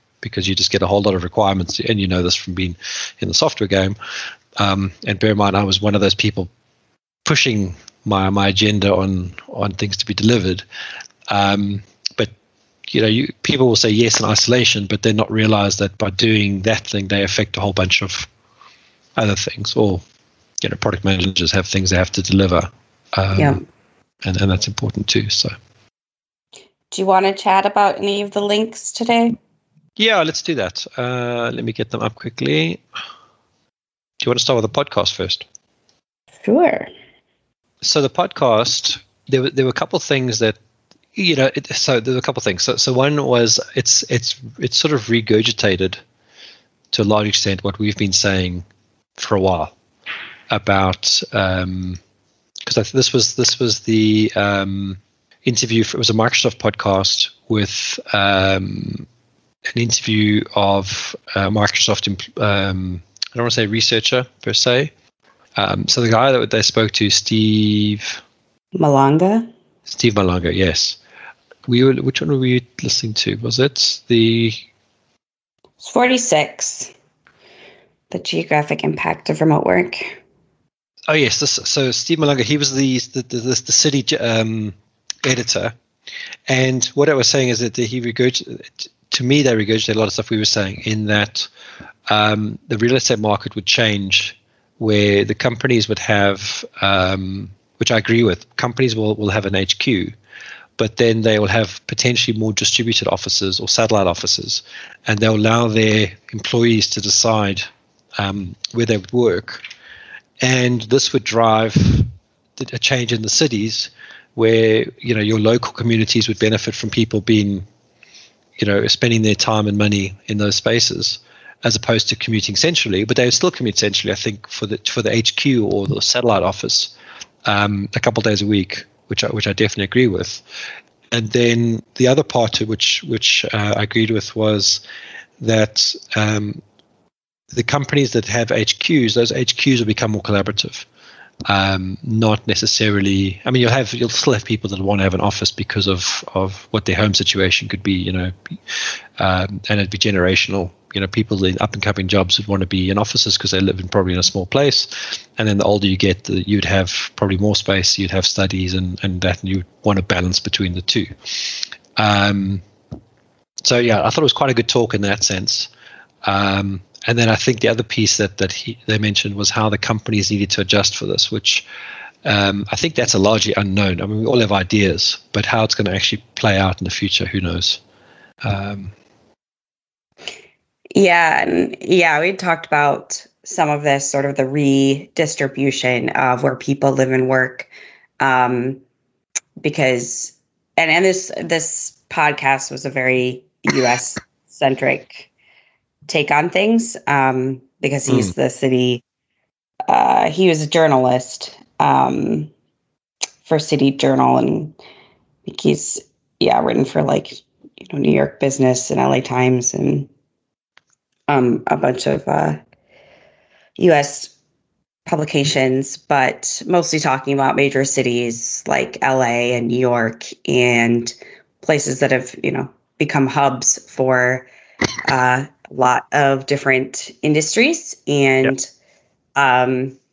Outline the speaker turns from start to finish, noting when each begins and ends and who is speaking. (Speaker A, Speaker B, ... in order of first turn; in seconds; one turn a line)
Speaker A: 0.2-4.0
Speaker A: 4.6-6.5
Speaker A: 7.2-10.6
Speaker A: 11.3-12.3
Speaker A: 12.9-18.3
Speaker A: 19.2-20.0
Speaker A: 20.6-23.6
Speaker B: 23.4-23.6
Speaker A: 24.2-25.5
Speaker B: 26.9-29.4
Speaker A: 30.0-32.8
Speaker A: 34.2-35.5
Speaker B: 36.4-36.9
Speaker A: 37.8-40.6
Speaker A: 41.1-46.0
Speaker A: 46.9-48.6
Speaker A: 49.2-49.7
Speaker A: 50.5-52.0
Speaker A: 52.6-59.1
Speaker A: 59.7-64.9
Speaker A: 65.6-68.2
Speaker B: 68.8-69.5
Speaker A: 69.9-71.0
Speaker A: 71.7-74.6
Speaker B: 75.8-76.9
Speaker B: 78.1-80.2
Speaker A: 81.1-85.7
Speaker A: 86.5-91.5
Speaker A: 92.1-100.1
Speaker A: 100.8-107.7
Speaker A: 108.2-109.6
Speaker A: 110.4-117.6
Speaker A: 118.6-126.9
Speaker A: 127.4-130.4
Speaker A: 131.1-134.8
Speaker A: 135.4-136.6
Speaker A: 137.5-140.8
Speaker A: 141.5-162.6
Speaker A: 163.6-165.7
Speaker A: 166.2-171.6
Speaker A: 172.2-177.8
Speaker A: 178.4-178.9
Speaker B: 180.9-188.8
Speaker B: 189.6-195.3
Speaker B: 196.1-199.0
Speaker A: 198.1-198.3
Speaker B: 199.9-202.5
Speaker B: 203.4-204.8
Speaker B: 205.5-210.1
Speaker B: 211.3-212.6
Speaker B: 213.8-214.3
Speaker B: 215.1-224.5
Speaker B: 225.0-228.7
Speaker B: 229.3-230.0